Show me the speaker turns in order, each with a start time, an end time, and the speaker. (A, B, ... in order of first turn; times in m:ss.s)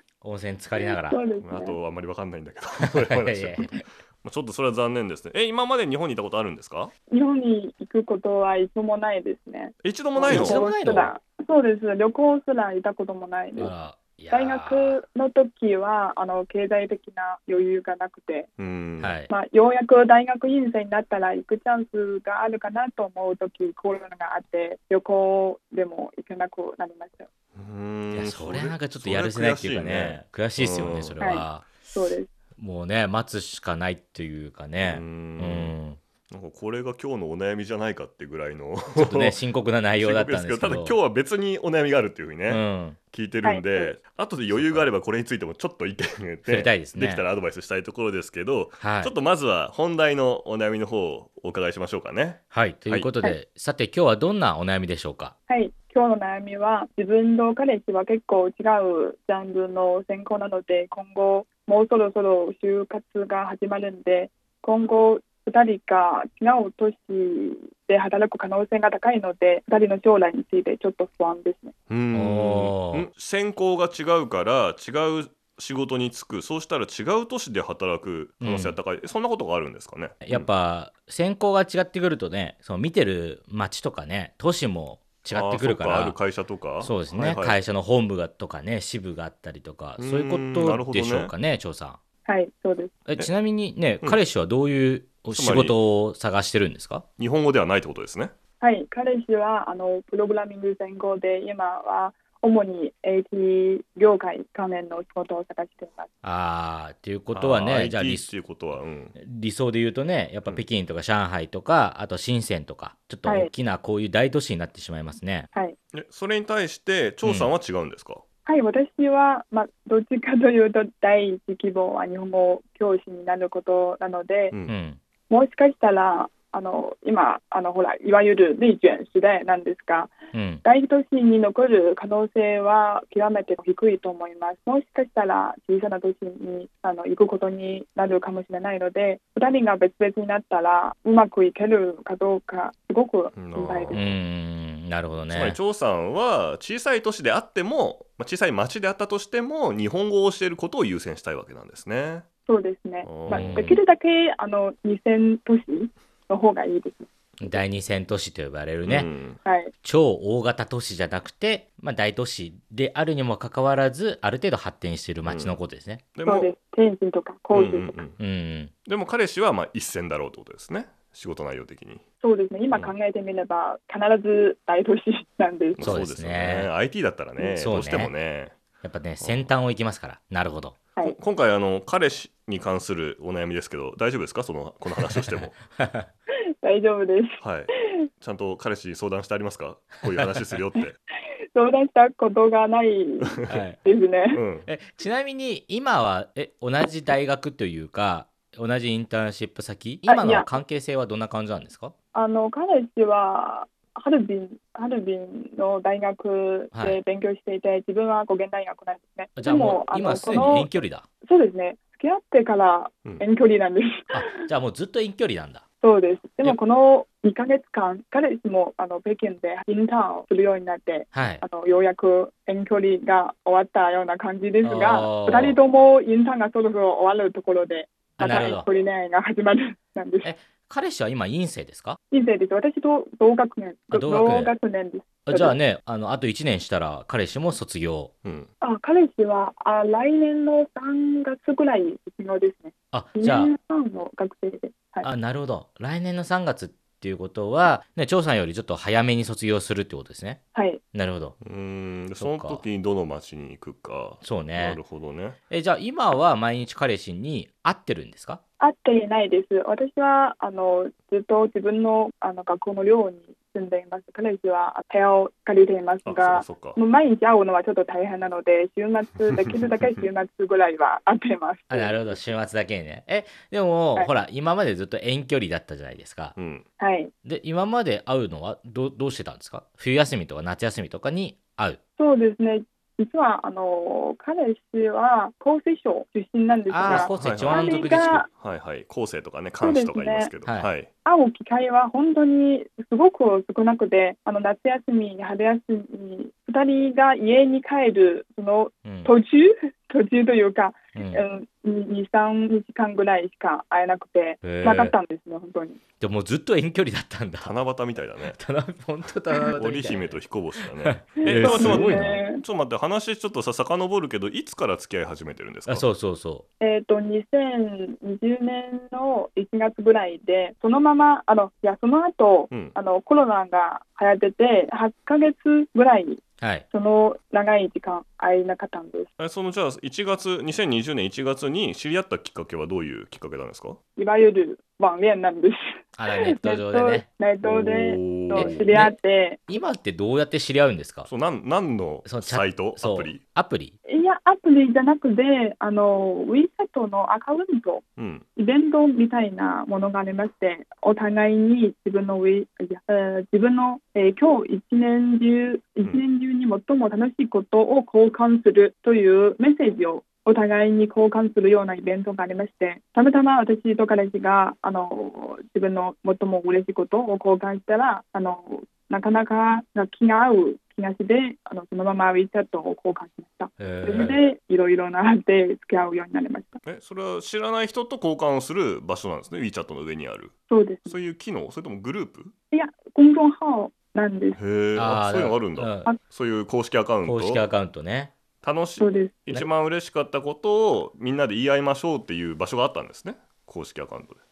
0:00.2-0:01.2 A
0:00.8-0:01.8 B
0:01.4-0:06.9 C
0:02.8-0:03.8 A
0:07.1-0:13.7 B
0:09.8-0:10.6 C
0:10.3-0:11.1 A
0:13.6-0:15.0 A
0:14.3-0:18.5 B
0:18.6-0:19.1 C
0:19.0-0:19.3 A
0:19.3-0:27.3 B
0:27.6-0:31.2 C
0:28.1-0:31.6 A
0:31.2-0:32.3 B
0:32.6-0:36.0 A
0:34.8-0:35.7 C
0:36.3-0:39.4 C
0:39.0-0:41.0 A
0:40.0-0:53.1 C
0:42.5-0:43.0 A
0:43.4-0:44.0 B
0:44.5-0:44.9 A
0:46.5-0:47.2 A
0:48.8-0:49.1 A
0:52.5-0:55.3 A
0:55.5-1:11.7 B
1:11.9-1:20.5 C
1:12.1-1:13.1 A
1:18.4-1:18.8 A
1:20.2-1:26.2 A
1:25.3-1:27.6 C
1:26.8-1:32.0 A
1:30.0-1:31.3 C
1:32.3-1:33.0 B
1:33.1-1:37.0 A
1:35.3-1:35.8 C
1:37.2-1:38.3 C
1:38.6-1:46.1 B
1:46.2-1:48.3 A
1:47.3-1:49.2 C
1:49.2-1:55.5 A
1:53.3-1:53.5 B
1:55.9-1:58.2 C
1:57.2-1:57.5 A
1:58.5-2:04.6 B
2:04.7-2:05.0 A
2:05.3-2:10.1 B
2:10.3-2:10.6 A
2:10.6-2:24.1 B
2:23.4-2:24.0 C
2:23.9-2:25.6 A
2:25.3-2:32.3 C
2:32.5-2:37.6 B
2:33.0-2:33.6 C
2:33.3-2:33.8 A
2:37.4-2:39.1 A
2:38.8-2:39.4 C
2:39.4-2:39.7 B
2:39.8-2:46.0 A
2:45.3-2:45.6 C
2:46.1-2:46.5 C
2:46.2-2:48.0 B
2:47.5-2:48.2 C
2:48.2-2:48.7 A
2:48.9-2:52.0 C
2:52.2-2:55.9 B
2:55.8-2:58.6 C
2:55.8-2:56.7 A
2:57.4-2:58.1 A
2:58.8-3:00.8 A
2:59.2-2:59.5 C
3:01.0-3:05.6 C
3:05.2-3:06.1 A
3:06.6-3:08.0 B
3:07.4-3:11.0 C
3:10.1-3:10.4 A
3:11.5-3:14.4 B
3:13.5-3:13.8 A
3:14.3-3:14.7 C
3:14.7-3:21.9 A
3:20.1-3:20.5 B
3:22.1-3:30.7 B
3:26.7-3:27.0 A
3:29.4-3:31.1 A
3:31.2-3:34.4 B
3:34.1-3:35.6 A
3:35.8-3:50.3 B
3:41.1-3:41.4 A
3:44.6-3:45.6 A
3:48.2-3:48.7 A
3:50.2-3:52.0 A
3:52.1-3:55.5 B
3:53.9-3:54.5 A
3:55.3-3:58.1 A
3:58.6-4:05.1 B
4:02.9-4:03.5 A
4:05.0-4:10.4 A
4:10.6-4:10.8 B
4:10.9-4:11.4 A
4:11.4-4:15.4 C
4:12.2-4:12.6 A
4:14.2-4:14.8 A
4:15.5-4:18.4 A
4:18.6-4:32.2 B
4:26.0-4:26.8 C
4:31.7-4:36.4 A
4:36.4-4:36.6 C
4:36.8-4:37.1 B
4:37.2-4:41.8 A
4:42.0-4:48.3 B
4:46.7-4:48.3 A
4:46.8-4:50.9 C
4:49.6-4:50.3 B
4:51.0-5:05.8 B
4:58.8-4:59.1 A
5:01.0-5:01.2 A
5:04.4-5:05.0 A
5:06.0-5:07.5 A
5:07.4-5:08.4 C
5:08.4-5:10.2 A
5:09.6-5:15.8 C
5:10.8-5:12.2 A
5:11.2-5:12.4 B
5:15.7-5:16.4 A
5:16.6-5:29.1 B
5:29.2-5:33.8 C
5:34.0-5:39.4 B
5:36.0-5:37.1 A
5:37.4-5:38.7 C
5:38.3-5:38.9 A
5:39.5-5:41.1 A
5:41.1-5:43.2 C
5:42.0-5:43.8 A
5:43.9-5:47.8 B
5:48.0-5:48.2 C
5:48.4-6:16.6 B
6:13.6-6:14.2 A
6:16.6-6:20.3 C
6:20.5-6:21.0 B
6:20.9-6:22.3 C
6:22.5-6:24.4 B
6:24.4-6:27.4 C
6:24.8-6:25.9 A
6:27.0-6:28.1 A
6:28.4-6:34.2 C
6:28.8-6:29.2 B